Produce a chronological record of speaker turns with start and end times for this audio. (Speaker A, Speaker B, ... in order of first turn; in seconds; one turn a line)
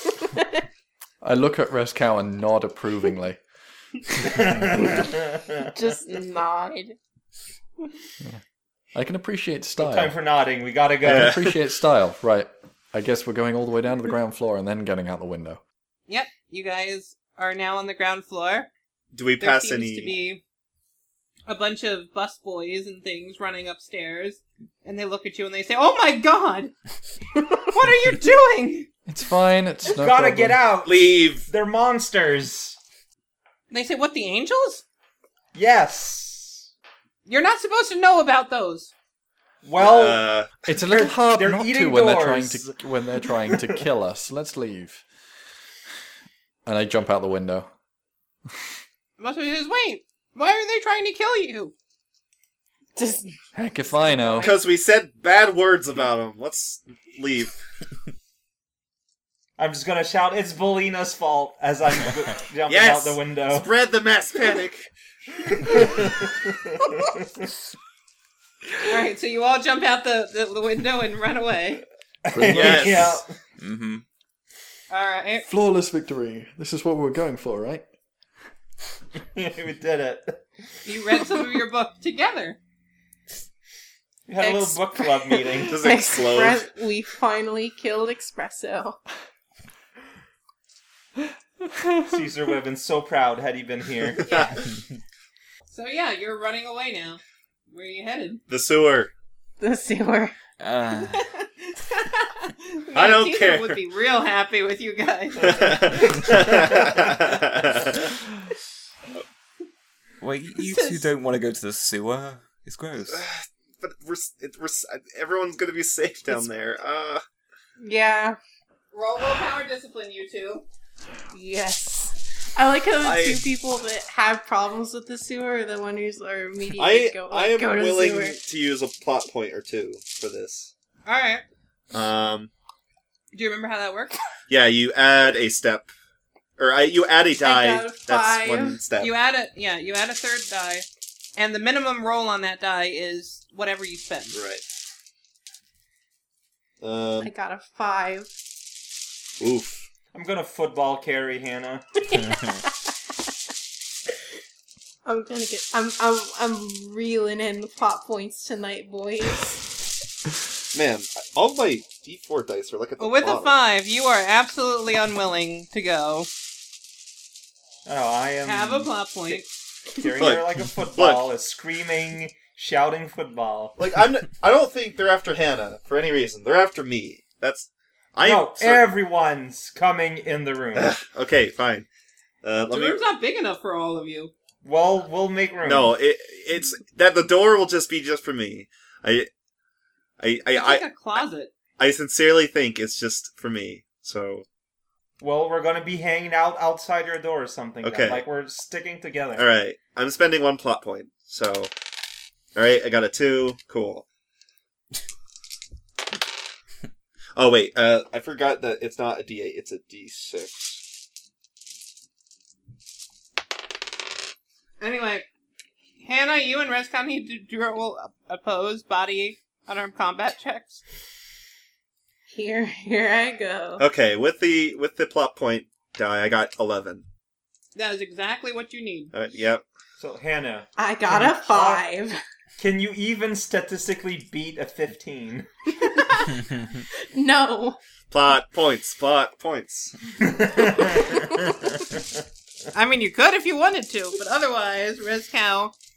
Speaker A: 1.2-3.4
Speaker A: 4.2-5.1
Speaker B: 4.2-5.7
Speaker C: 5.6-7.0
Speaker A: 8.9-10.1
Speaker B: 9.8-11.5
Speaker A: 11.0-15.6
Speaker D: 11.0-11.5
Speaker E: 16.1-18.7
Speaker D: 19.1-20.2
Speaker E: 19.4-20.4
Speaker E: 21.5-26.7
Speaker E: 27.6-28.9
Speaker A: 29.1-30.6
Speaker B: 29.8-32.8
Speaker D: 30.8-31.5
Speaker E: 33.7-34.8
Speaker B: 35.5-36.7
Speaker E: 37.3-38.9
Speaker B: 39.6-40.2
Speaker D: 39.8-40.5
Speaker A: 40.7-45.0
Speaker B: 40.9-42.8
Speaker A: 46.6-47.7
Speaker E: 49.2-51.7
Speaker C: 53.0-53.4
Speaker A: 53.5-54.5
Speaker D: 54.4-57.6
Speaker B: 59.6-63.7
Speaker D: 62.7-64.9
Speaker D: 65.4-65.9
Speaker B: 65.6-67.5
Speaker E: 68.8-71.8
Speaker B: 72.2-73.3
Speaker A: 72.3-73.2
Speaker D: 72.5-73.2
Speaker F: 73.6-74.0
Speaker E: 74.9-75.5
Speaker A: 75.5-77.8
Speaker B: 79.2-80.8
Speaker E: 80.8-82.6
Speaker B: 84.3-85.8
Speaker C: 84.4-89.0
Speaker D: 85.7-86.7
Speaker B: 92.1-94.3
Speaker D: 94.2-94.5
Speaker E: 94.2-94.7
Speaker E: 95.7-97.2
Speaker E: 97.7-98.4
Speaker D: 98.5-99.1
Speaker C: 99.6-100.3
Speaker F: 100.6-101.2
Speaker E: 100.9-106.2
Speaker D: 102.9-103.8
Speaker D: 105.4-108.1
Speaker F: 110.2-113.2
Speaker E: 110.7-111.0
Speaker D: 113.1-117.2
Speaker C: 117.8-118.4
Speaker E: 118.9-120.7
Speaker C: 121.3-128.4
Speaker D: 123.0-123.5
Speaker D: 126.8-130.7
Speaker E: 131.1-131.4
Speaker D: 131.9-132.5
Speaker E: 133.3-134.2
Speaker D: 134.5-135.9
Speaker D: 136.6-139.1
Speaker C: 137.4-138.8
Speaker E: 139.0-144.4
Speaker D: 144.3-144.6
Speaker D: 146.8-147.3
Speaker C: 147.2-148.3
Speaker D: 149.4-149.8
Speaker B: 150.1-151.8
Speaker C: 152.1-152.7
Speaker F: 152.1-152.6
Speaker C: 155.1-159.6
Speaker D: 160.7-163.5
Speaker E: 163.0-166.3
Speaker B: 167.8-173.8
Speaker E: 168.4-169.5
Speaker D: 170.2-171.3
Speaker D: 173.8-178.9
Speaker B: 178.2-180.9
Speaker D: 180.7-181.9
Speaker D: 182.4-183.0
Speaker E: 182.7-184.3
Speaker B: 184.6-185.9
Speaker D: 185.7-189.3
Speaker D: 190.2-190.9
Speaker E: 190.5-191.5
Speaker D: 191.8-194.4
Speaker B: 195.2-199.4
Speaker D: 197.8-198.2
Speaker D: 199.3-201.7
Speaker D: 202.5-204.1
Speaker D: 207.3-210.8
Speaker E: 214.8-215.3
Speaker E: 216.0-220.8
Speaker C: 222.3-223.8
Speaker D: 223.8-227.0
Speaker E: 227.7-229.1
Speaker D: 229.1-229.6
Speaker B: 230.0-231.8
Speaker C: 230.8-232.2
Speaker B: 232.6-235.5
Speaker C: 235.8-236.4
Speaker C: 237.1-237.8
Speaker D: 238.1-240.1
Speaker B: 240.2-242.2
Speaker E: 242.7-245.7